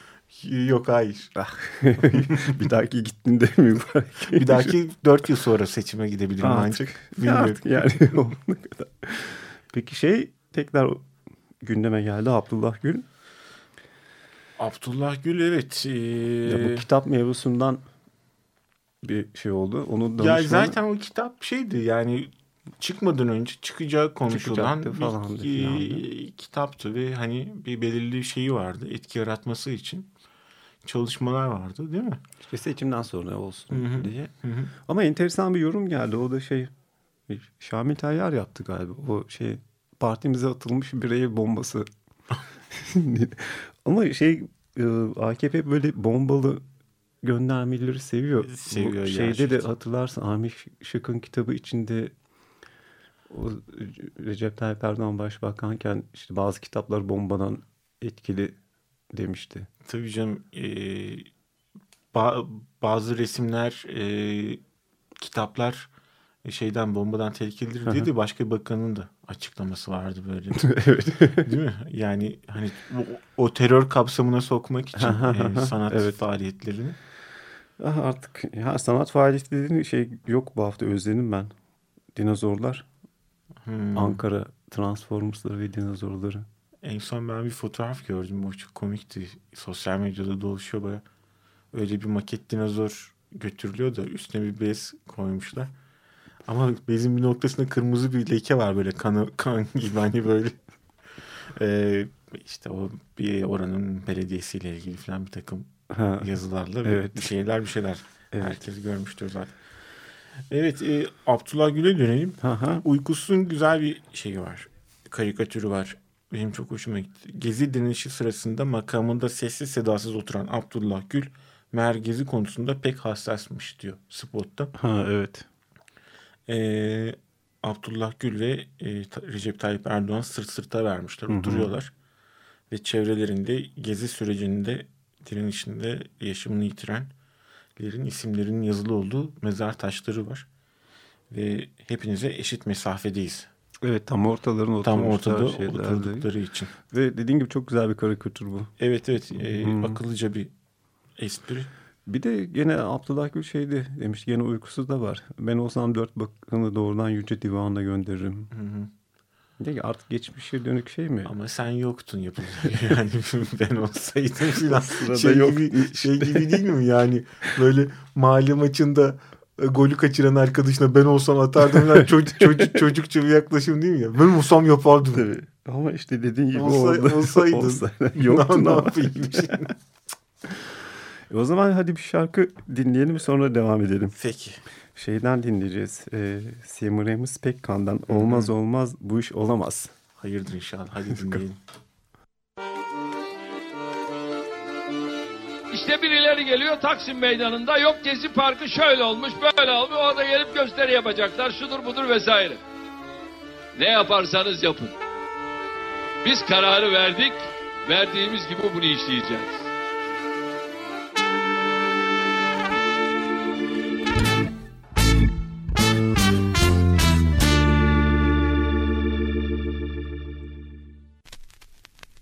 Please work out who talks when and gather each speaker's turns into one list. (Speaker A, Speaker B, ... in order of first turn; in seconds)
Speaker A: 0.3-1.3, 2.1-2.6, 4.3-7.6, 14.6-16.9, 20.2-30.1, 30.8-32.2, 33.7-34.7, 48.4-49.6, 59.8-61.3, 62.1-64.6, 65.2-65.9, 66.4-70.7, 71.3-77.0, 83.6-84.2, 86.8-91.0, 91.7-95.7, 96.5-100.5, 101.4-109.5, 110.5-124.7, 126.5-131.9, 132.7-137.1, 137.8-140.5, 141.3-143.5, 144.8-146.7, 148.8-150.5, 151.2-151.7, 158.5-158.9, 161.2-175.3, 176.5-179.7, 184.1-184.6, 188.1-188.5, 190.2-191.6
Speaker B: 1.4-4.8, 6.4-11.0, 11.6-13.1, 16.4-17.8, 19.0-20.8, 24.3-26.0, 32.4-34.3, 34.8-36.7, 37.3-41.9, 42.7-46.6, 47.2-52.1, 53.3-58.5, 59.1-59.7, 70.5-71.5, 75.0-76.2, 77.8-81.5, 82.1-82.8, 83.9-86.5, 105.9-106.3, 106.8-107.3, 108.3-108.6, 112.4-112.8, 124.7-125.5, 131.3-131.7, 143.8-146.3, 146.9-148.7, 149.4-150.0, 152.1-158.5, 159.6-161.3, 164.7-166.7, 175.1-179.5, 180.5-180.7, 181.3-184.1, 184.9-189.9
Speaker C: 195.7-202.6, 203.8-204.9, 206.2-209.7